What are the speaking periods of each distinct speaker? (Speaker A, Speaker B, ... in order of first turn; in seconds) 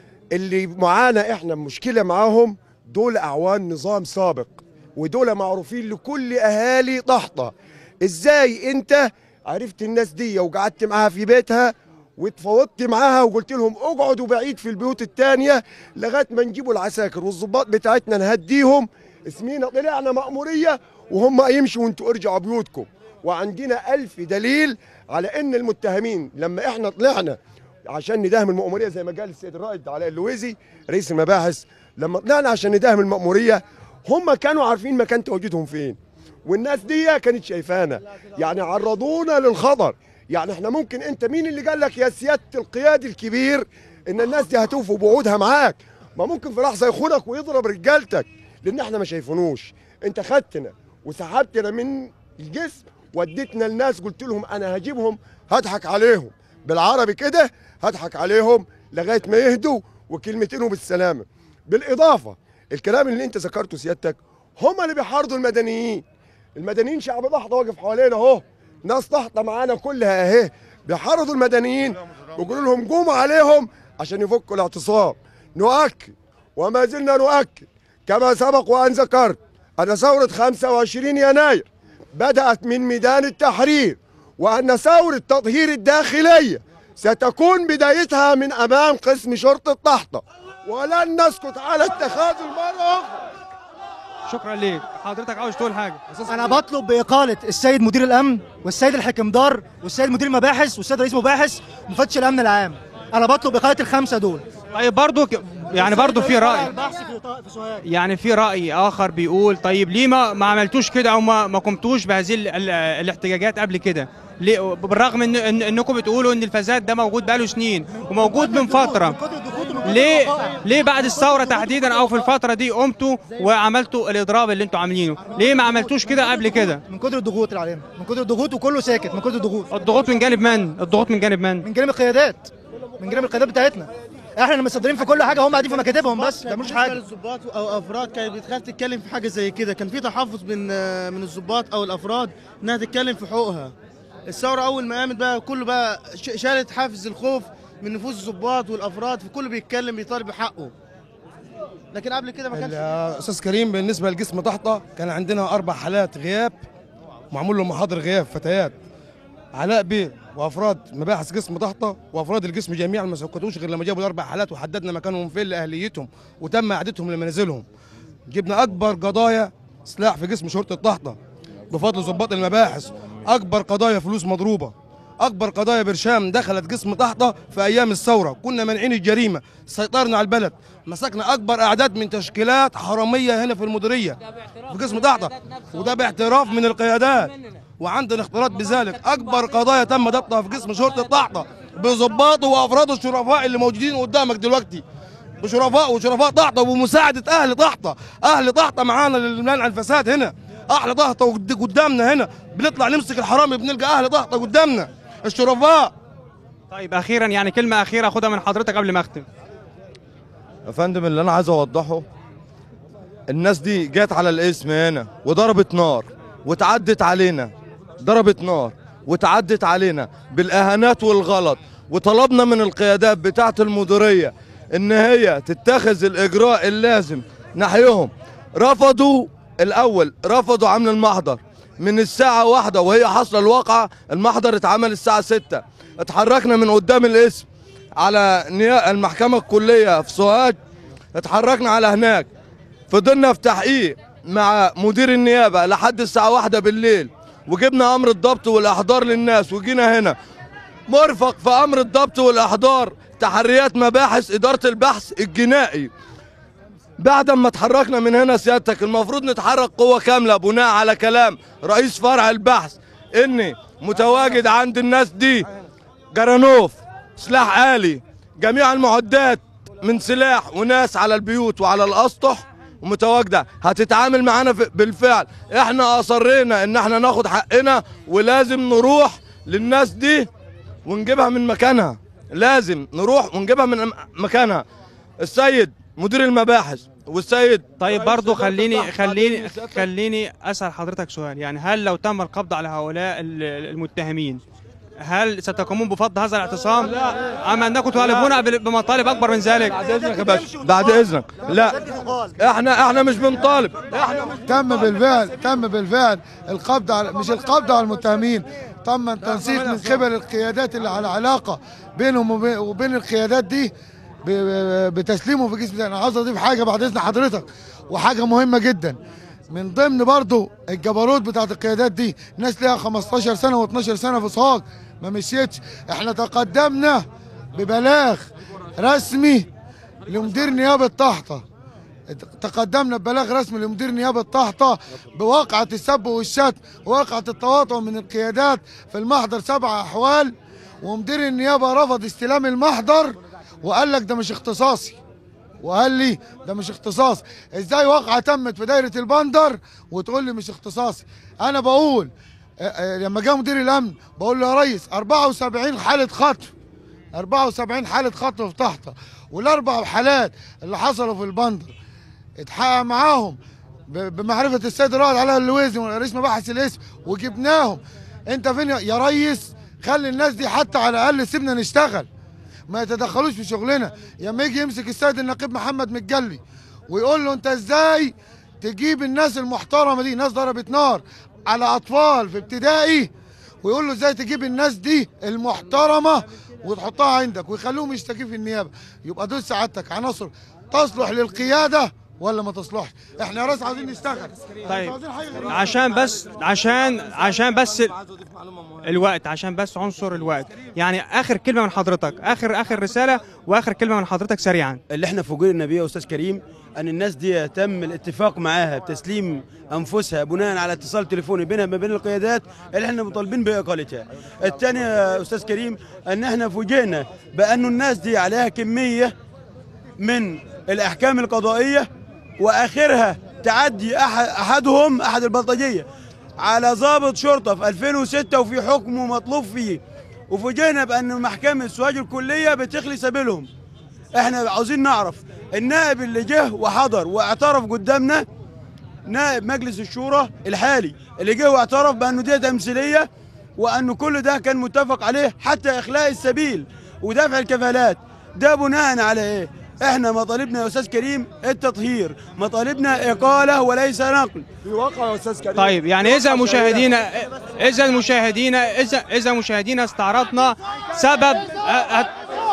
Speaker A: 0.3-27.4, 27.9-66.0, 66.6-93.2, 454.6-456.9
Speaker B: 94.3-96.0, 104.7-106.7, 107.8-119.2, 119.8-126.8, 129.7-131.6, 206.7-209.2, 287.8-294.4, 295.0-299.8, 394.6-395.0, 395.5-397.9, 398.8-404.8, 455.6-462.1
Speaker C: 96.3-104.5, 105.7-107.8, 117.9-122.2, 125.3-129.9, 131.6-137.0, 299.7-302.4
Speaker D: 135.0-143.7, 144.3-150.7, 151.9-152.9
Speaker E: 152.5-156.6, 157.3-158.7, 159.5-167.6, 168.3-171.2, 171.7-194.8, 195.4-205.9, 288.0-289.3, 304.1-304.4, 309.3-309.9
Speaker F: 210.7-212.0, 213.3-237.5, 238.0-240.6, 241.2-242.3, 242.9-250.2, 250.9-255.9, 257.0-265.5, 266.1-280.3, 280.9-284.6, 285.2-287.7, 300.0-301.9, 302.4-304.3
Speaker G: 304.4-313.7, 314.2-319.0, 319.5-329.5, 330.1-331.4, 332.1-345.0, 345.6-356.5, 357.1-361.7, 362.4-363.4, 363.9-372.1, 372.7-383.1, 383.6-395.9
Speaker H: 404.9-419.1, 420.0-421.9, 422.4-425.9, 426.4-433.5, 434.1-438.2, 439.0-454.4